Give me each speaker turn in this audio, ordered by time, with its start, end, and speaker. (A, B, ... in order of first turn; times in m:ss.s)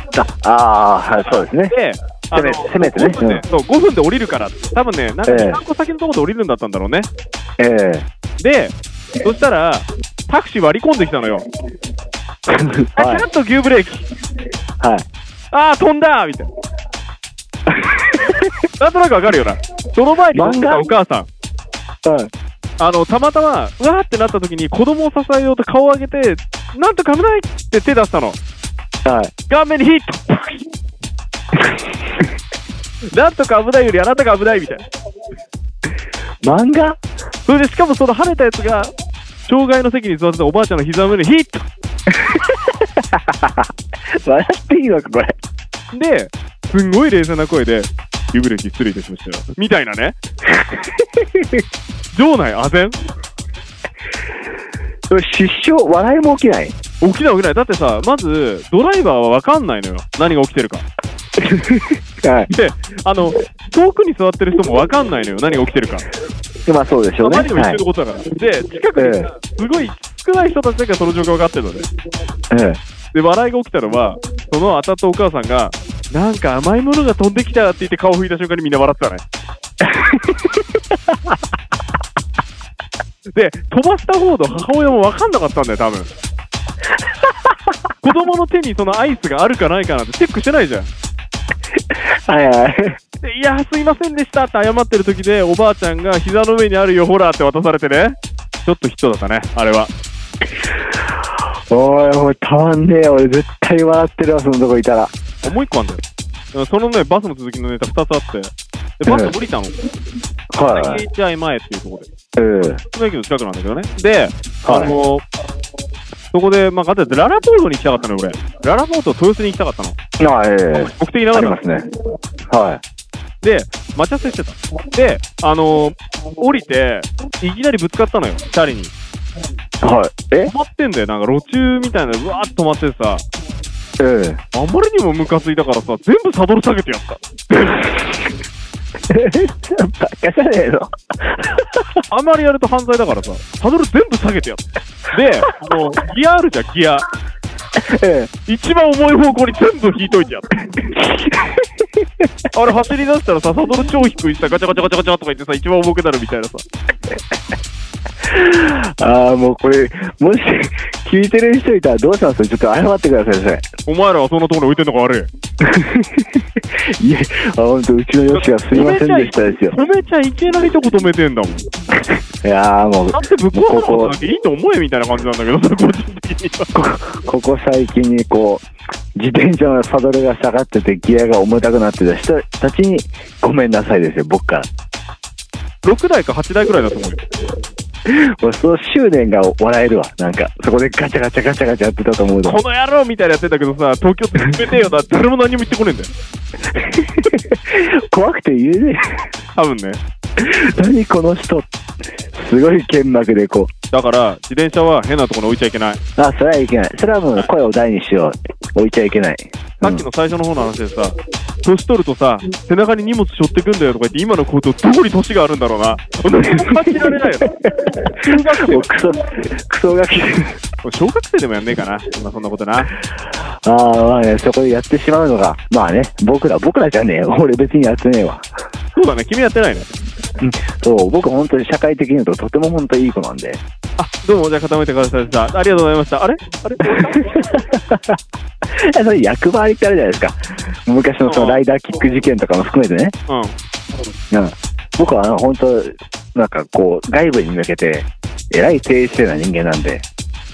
0:00.2-0:01.7 A
0:01.2-0:07.1 B
0:02.3-0:03.4 A
0:05.3-0:05.6 A
0:07.6-0:08.1 A
0:08.4-0:11.4 B
0:12.5-0:13.3 A
0:13.0-0:14.1 B
0:14.8-0:15.1 A
0:15.5-0:16.5 B
0:17.7-0:18.6 A
0:18.8-0:21.3 B
0:20.3-0:20.9 A
0:22.0-0:22.3 A
0:22.8-0:28.4 B
0:29.0-0:29.3 A
0:29.5-0:30.7 B
0:33.1-0:34.8 B
0:36.4-0:37.0 A
0:37.5-0:38.9 B
0:39.5-0:41.7 B
0:42.1-0:43.7 A
0:44.2-0:45.4 A
0:45.9-0:50.2 B
0:50.6-0:51.6 A
0:52.1-0:53.0 B
0:55.1-0:56.8 A
0:57.0-1:00.8 B
1:01.4-1:02.5 A
1:02.5-1:06.1 B
1:06.7-1:07.8 A
1:07.2-1:11.8 B
1:09.0-1:09.3 A
1:12.5-1:12.8 A
1:13.1-1:19.2 B
1:19.9-1:20.6 A
1:23.3-1:26.1 B
1:27.2-1:27.5 A
1:28.0-1:30.9 B
1:32.0-1:33.0 A
1:33.2-1:39.9 B
1:41.7-1:45.2 A
1:45.4-1:46.0 B
1:46.5-1:49.8 B
1:49.0-1:49.4 A
1:50.5-1:51.0 A
1:50.7-1:52.1 B
1:52.4-1:52.8 A
1:52.9-1:55.2 B
1:54.6-1:55.0 A
1:56.3-2:00.0 B
2:00.2-2:01.9 A
2:00.7-2:01.6 B
2:02.5-2:02.8 A
2:03.4-2:08.9 B
2:09.8-2:10.5 A
2:10.5-2:13.2 B
2:14.0-2:14.4 A
2:14.5-2:17.2 B
2:19.1-2:22.0 A
2:22.1-2:27.1 B
2:27.8-2:28.3 A
2:28.5-2:30.5 B
2:30.8-2:32.1 A
2:32.5-2:36.6 B
2:38.2-2:43.6 A
2:43.9-2:45.3 B
2:45.6-2:49.8 A
2:48.3-2:51.7 B
2:52.4-2:54.2 A
2:53.1-2:56.7 B
2:56.7-3:04.7 A
3:05.8-3:07.2 B
3:08.1-3:12.6 A
3:12.4-3:16.1 B
3:16.8-3:19.3 A
3:19.6-3:20.0 B
3:20.4-3:21.7 A
3:22.3-3:23.7 A
3:23.9-3:26.0 B
3:26.2-3:30.1 A
3:29.8-3:37.6 B
3:36.5-3:40.6 A
3:38.2-3:38.9 B
3:40.8-3:42.9 B
3:43.6-3:48.4 A
3:49.0-3:49.9 B
3:50.4-3:53.6 A
3:54.0-3:57.5 B
3:57.0-3:58.1 A
3:58.8-4:03.2 A
4:01.3-4:01.6 B
4:03.3-4:03.6 B
4:04.3-4:10.1 A